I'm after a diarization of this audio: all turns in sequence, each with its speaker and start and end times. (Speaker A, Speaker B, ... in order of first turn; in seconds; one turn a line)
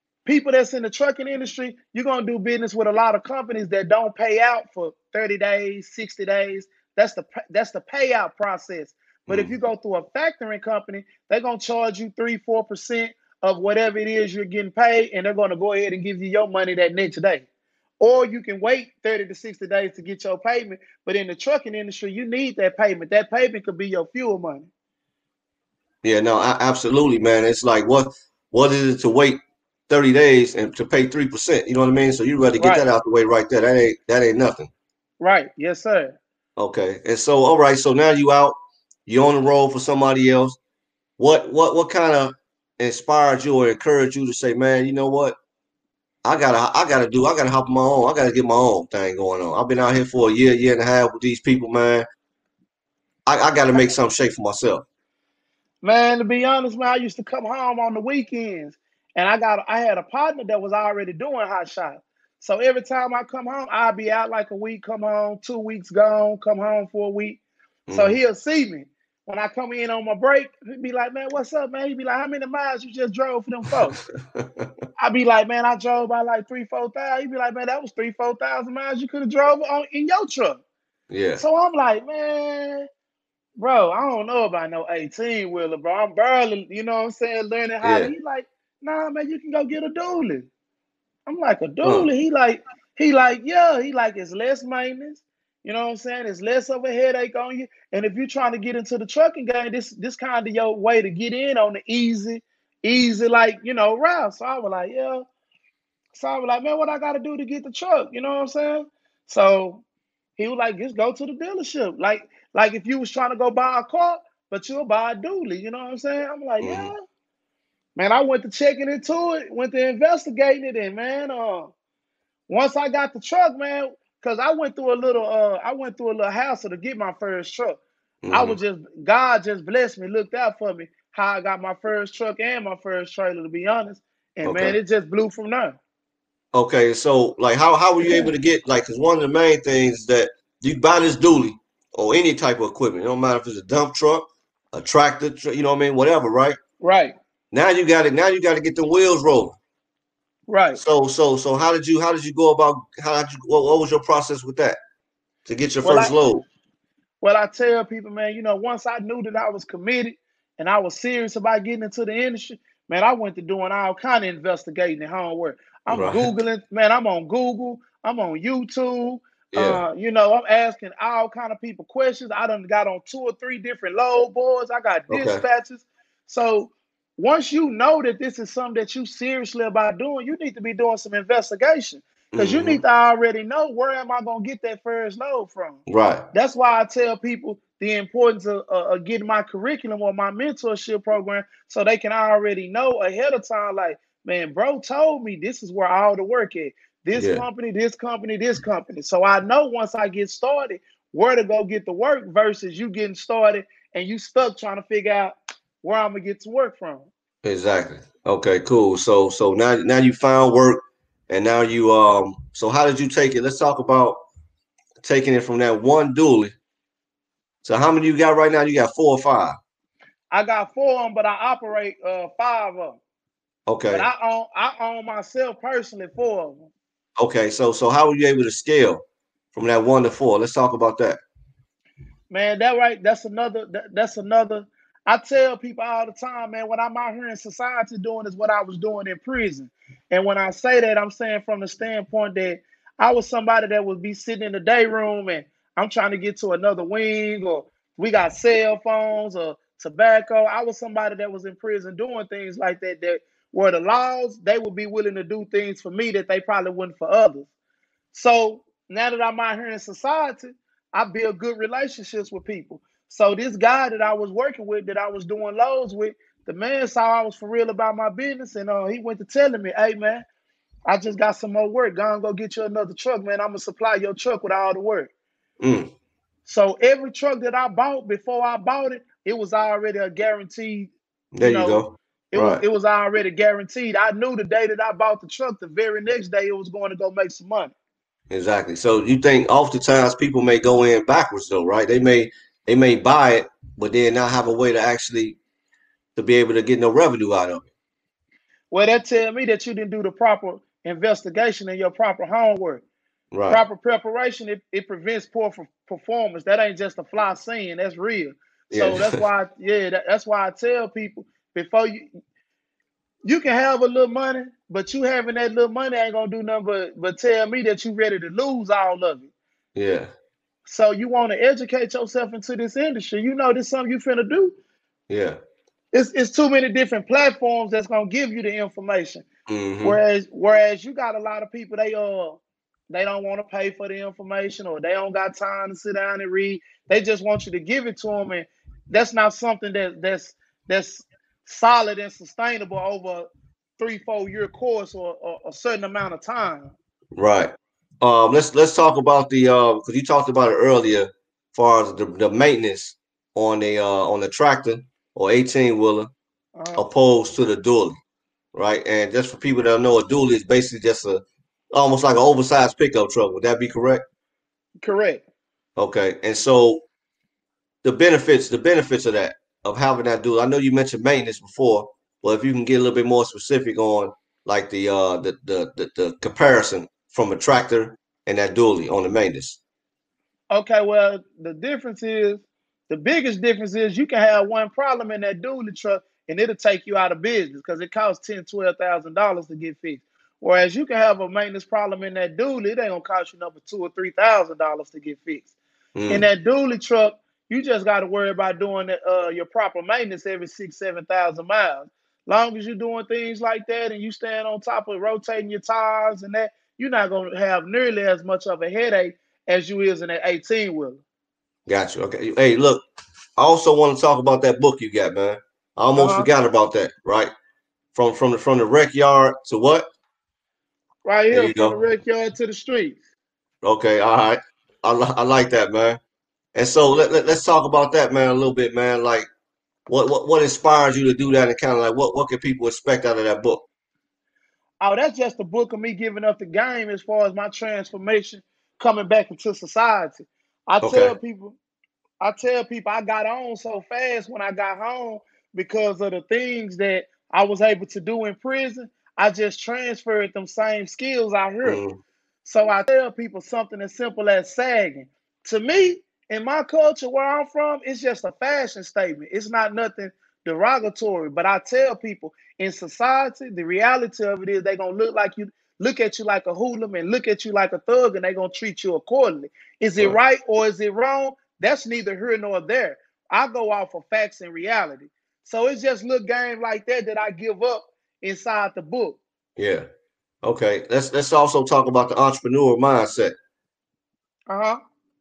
Speaker A: 0.2-17.5
Speaker B: 9.3-9.5
Speaker A: 18.0-24.7
Speaker B: 26.0-34.7
Speaker A: 32.6-32.9
Speaker A: 35.2-36.2
Speaker B: 36.6-40.6
Speaker B: 41.2-45.4
Speaker B: 46.2-52.0
Speaker B: 53.3-54.9
Speaker A: 55.8-67.4
Speaker B: 67.9-68.2
Speaker A: 67.9-74.0
Speaker B: 74.0-74.7
Speaker A: 75.0-80.6
Speaker B: 81.1-81.4
Speaker A: 81.4-82.9
Speaker A: 83.6-90.5
Speaker B: 87.8-88.1
Speaker A: 91.3-105.3
Speaker B: 91.8-92.1
Speaker A: 106.1-109.8
Speaker A: 110.4-117.0
Speaker B: 116.6-116.9
Speaker A: 118.0-121.7
Speaker A: 122.5-127.8
Speaker B: 128.2-128.6
Speaker A: 128.3-135.8
Speaker B: 134.4-134.8
Speaker B: 136.5-146.6
Speaker A: 138.0-138.3
Speaker A: 146.8-147.2
Speaker B: 147.5-149.6
Speaker A: 150.5-150.8
Speaker B: 150.8-154.8
Speaker B: 155.5-156.4
Speaker A: 155.8-156.1
Speaker A: 157.2-185.8
Speaker B: 165.9-166.3
Speaker B: 169.5-169.8
Speaker B: 175.1-175.4
Speaker B: 182.3-182.8
Speaker B: 185.9-186.2
Speaker A: 186.3-207.1
Speaker B: 197.2-197.4
Speaker B: 207.4-214.2
Speaker B: 215.0-216.5
Speaker B: 217.6-219.6
Speaker A: 220.3-223.0
Speaker B: 223.7-224.1
Speaker A: 223.9-226.7
Speaker B: 227.2-229.0
Speaker B: 229.5-231.2
Speaker A: 232.3-257.5
Speaker A: 258.1-270.2
Speaker A: 270.9-275.1
Speaker B: 275.6-275.9
Speaker A: 276.5-287.7
Speaker B: 281.3-282.6
Speaker B: 288.3-295.4
Speaker B: 296.2-297.7
Speaker A: 298.7-302.8
Speaker B: 303.3-303.6
Speaker A: 303.5-312.1
Speaker B: 308.7-309.2
Speaker A: 313.2-319.3
Speaker B: 319.8-320.1
Speaker A: 320.7-324.6
Speaker B: 325.1-325.4
Speaker A: 325.9-329.3
Speaker B: 329.5-330.0
Speaker A: 329.8-346.7
Speaker B: 347.2-356.1
Speaker A: 356.6-356.8
Speaker B: 356.8-358.0
Speaker B: 358.5-361.2
Speaker B: 361.7-364.0
Speaker A: 364.8-365.2
Speaker B: 365.8-366.8
Speaker B: 367.8-379.6
Speaker A: 380.5-395.5
Speaker B: 396.0-396.3
Speaker A: 396.1-411.0
Speaker B: 411.7-412.8
Speaker B: 413.4-417.3
Speaker A: 416.0-416.3
Speaker B: 417.9-419.9
Speaker A: 421.1-423.0
Speaker B: 421.3-421.8
Speaker B: 423.6-426.0
Speaker B: 426.6-429.3
Speaker B: 429.9-433.6
Speaker A: 434.8-441.6
Speaker B: 440.8-441.1
Speaker A: 442.2-451.8
Speaker B: 451.6-452.0
Speaker A: 452.4-479.2
Speaker B: 479.6-479.9
Speaker B: 480.4-483.3
Speaker A: 484.5-484.8